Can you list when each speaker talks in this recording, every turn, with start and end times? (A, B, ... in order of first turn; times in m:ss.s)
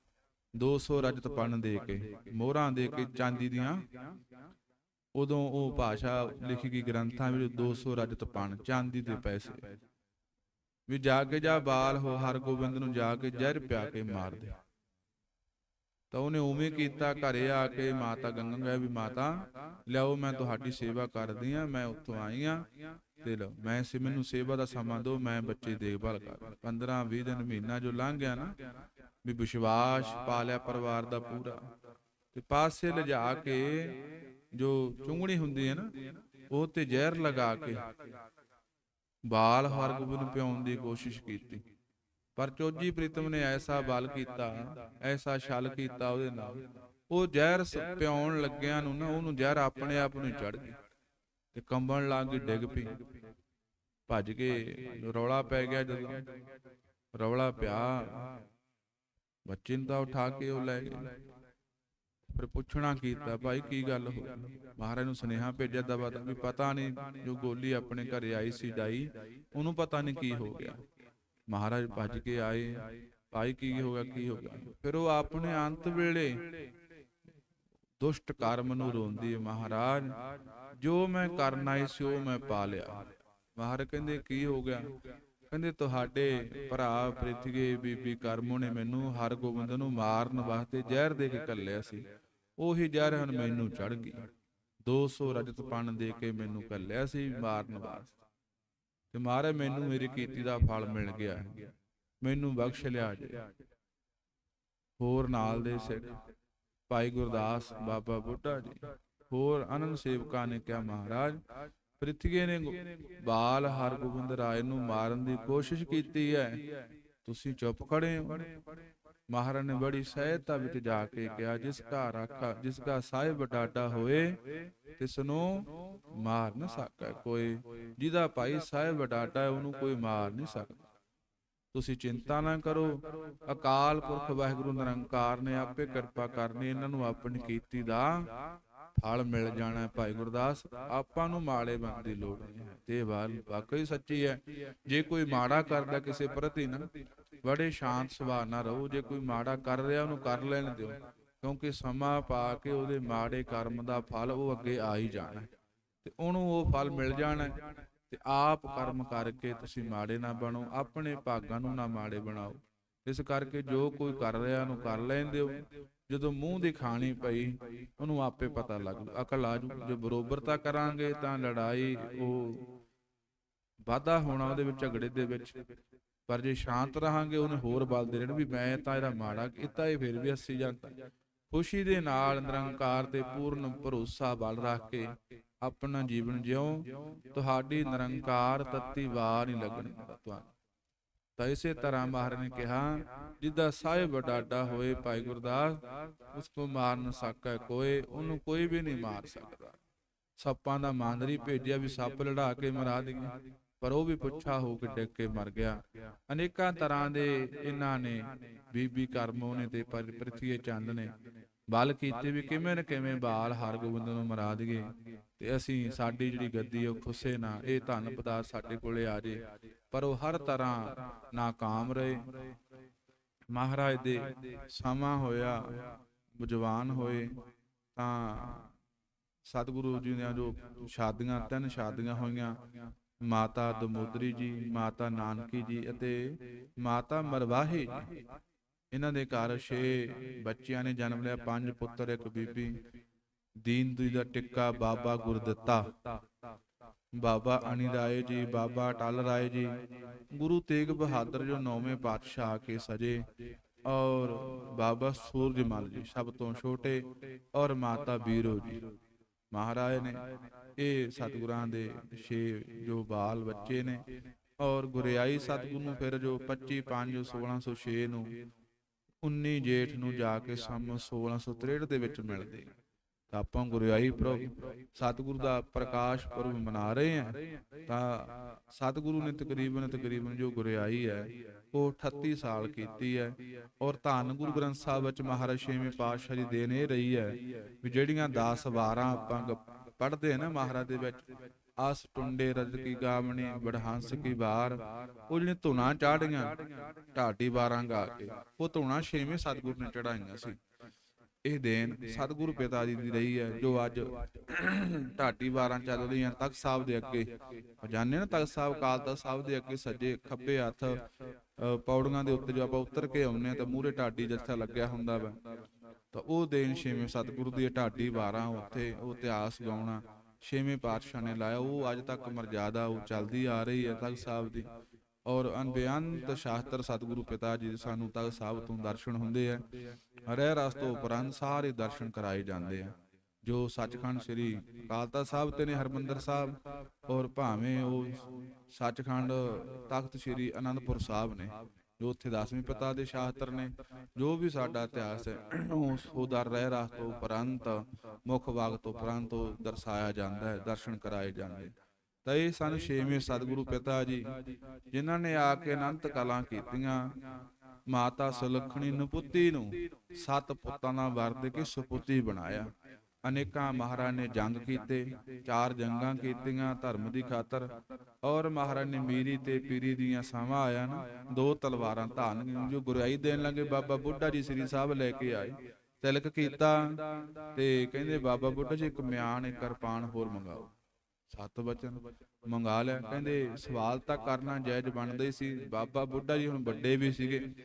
0:00.6-0:03.9 A
0:05.1-0:09.8 A
0:10.9-0:14.6 A
0:16.1-0:22.6 A
0:23.2-0:28.5 A
0:29.2-0:31.6 A
0:32.3-0:38.0 A
0:39.3-0:41.6 A
0:42.4-0:50.8 A
0:51.5-0:53.0 A
0:54.1-0:56.3 A
0:57.1-0:58.4 A
0:59.4-1:01.2 A
1:02.3-1:10.8 A
1:11.5-1:16.5 A
1:18.0-1:20.1 A
1:20.8-1:24.9 A
1:25.5-1:32.0 A
1:32.6-1:34.3 A
1:34.8-1:38.2 A
1:39.1-1:43.5 A
1:45.0-1:46.2 A
1:46.9-1:51.4 A
1:52.0-1:56.6 A
1:57.2-1:58.5 A
1:59.3-2:04.4 A
2:05.0-2:10.9 A
2:11.7-2:18.3 A
2:19.0-2:26.9 A
2:27.4-2:35.5 A
2:36.0-2:52.7 A
2:53.9-2:55.6 A
2:56.3-3:01.0 A
3:01.5-3:10.5 A
3:11.4-3:19.8 A
3:20.4-3:31.1 A
3:31.7-3:42.4 A
3:43.5-3:47.4 A
3:48.0-3:48.7 A
3:49.5-3:52.6 A
3:53.2-3:58.2 A
3:58.9-4:02.8 A
4:03.6-4:05.9 A
4:07.2-4:13.3 A
4:13.8-4:18.9 A
4:19.5-4:20.2 A
4:20.8-4:24.0 A
4:24.6-4:28.3 A
4:29.2-4:32.7 A
4:33.3-4:51.3 A
4:51.8-5:00.6 A
5:01.4-5:11.0 A
5:11.6-5:15.4 A
5:16.1-5:24.7 A
5:25.2-5:29.7 A
5:30.2-5:51.7 A
5:52.2-5:54.4 A
5:54.9-5:57.1 A
5:57.9-6:02.7 A
6:03.2-6:20.7 A
6:21.3-6:27.5 A